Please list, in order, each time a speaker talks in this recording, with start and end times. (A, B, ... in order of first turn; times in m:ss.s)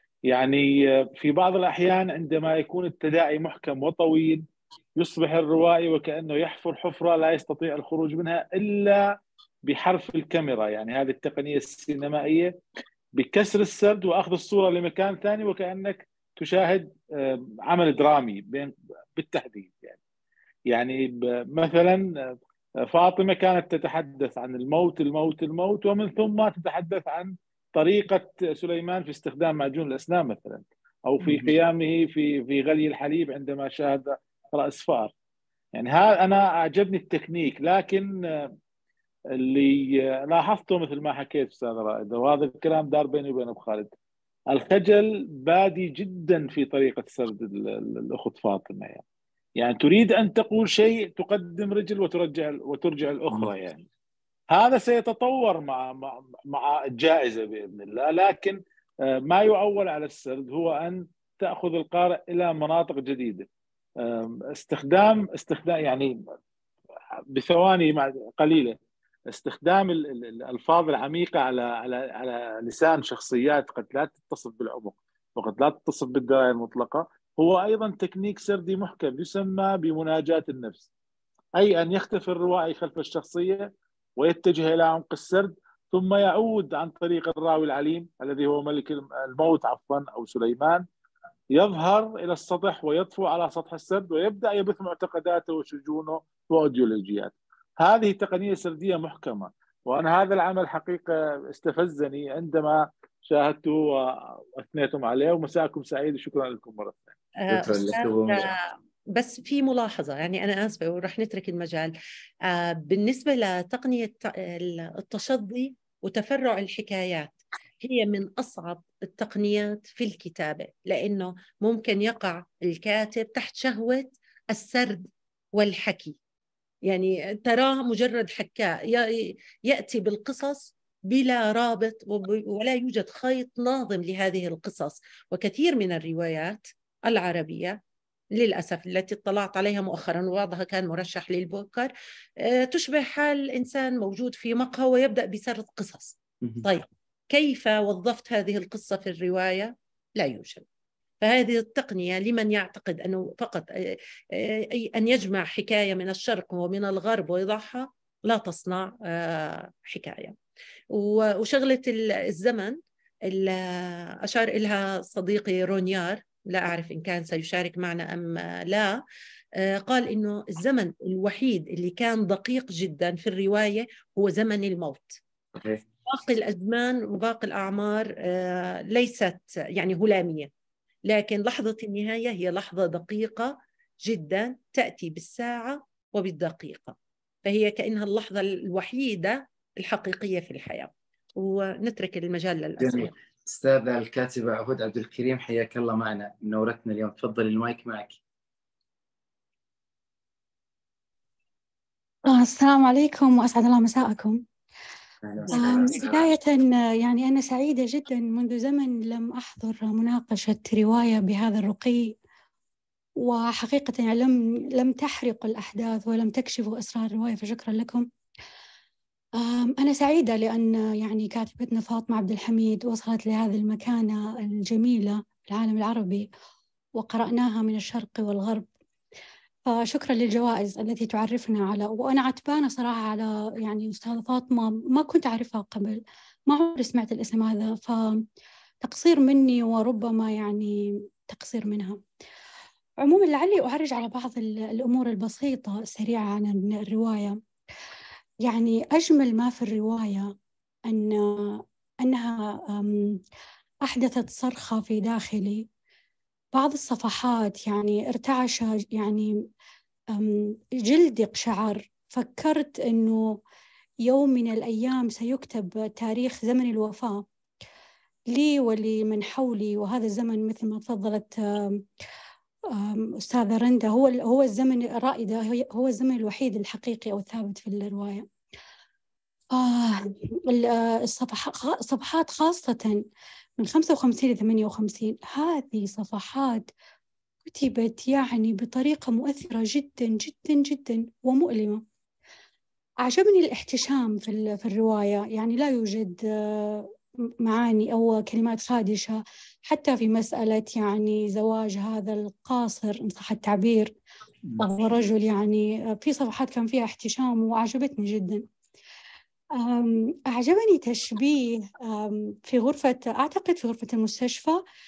0:00.3-0:04.4 A
0:05.0-0:09.0 A
0:09.7-0:12.5 A
0:13.2-0:20.0 A
0:20.7-0:22.3 A
0:22.9-0:35.1 A
0:31.2-0:31.5 B
0:35.8-0:38.5 A
0:39.4-0:43.9 A
0:44.5-0:49.0 A
0:49.6-0:53.8 A
0:54.5-1:03.5 A
1:04.0-1:06.2 A
1:07.3-1:08.8 A
1:09.3-1:20.9 A
1:21.6-1:23.7 A
1:24.2-1:30.8 A
1:31.5-1:47.1 A
1:47.5-1:48.4 C
1:47.5-1:48.5 B
1:49.1-1:51.9 C
1:52.5-2:06.2 C
2:06.9-2:17.8 C
2:18.4-2:21.9 C
2:22.4-2:30.6 C
2:31.2-2:40.4 C
2:40.9-2:49.0 C
2:49.6-2:55.2 C
2:55.6-2:55.8 B
2:56.0-3:00.5 C
3:01.1-3:13.1 C
3:12.8-3:18.2 B
3:22.3-3:24.4 D
3:25.2-3:26.3 B
3:25.5-3:32.1 D
3:33.2-3:38.1 D
3:39.4-3:46.3 D
3:47.0-3:48.7 D
3:49.7-3:58.2 D
3:58.8-4:00.7 D
4:01.3-4:02.0 D
4:03.0-4:07.4 D
4:08.5-4:10.3 D
4:10.9-4:13.0 D
4:13.8-4:15.7 D
4:16.5-4:19.3 D
4:20.2-4:23.2 D
4:24.1-4:27.2 D
4:28.3-4:31.8 D
4:32.8-4:38.3 D
4:39.6-4:43.0 D
4:43.6-4:46.7 D
4:47.5-4:51.8 D
4:53.0-4:56.9 D
4:57.4-5:03.9 D
5:04.6-5:08.5 D
5:09.6-5:14.6 D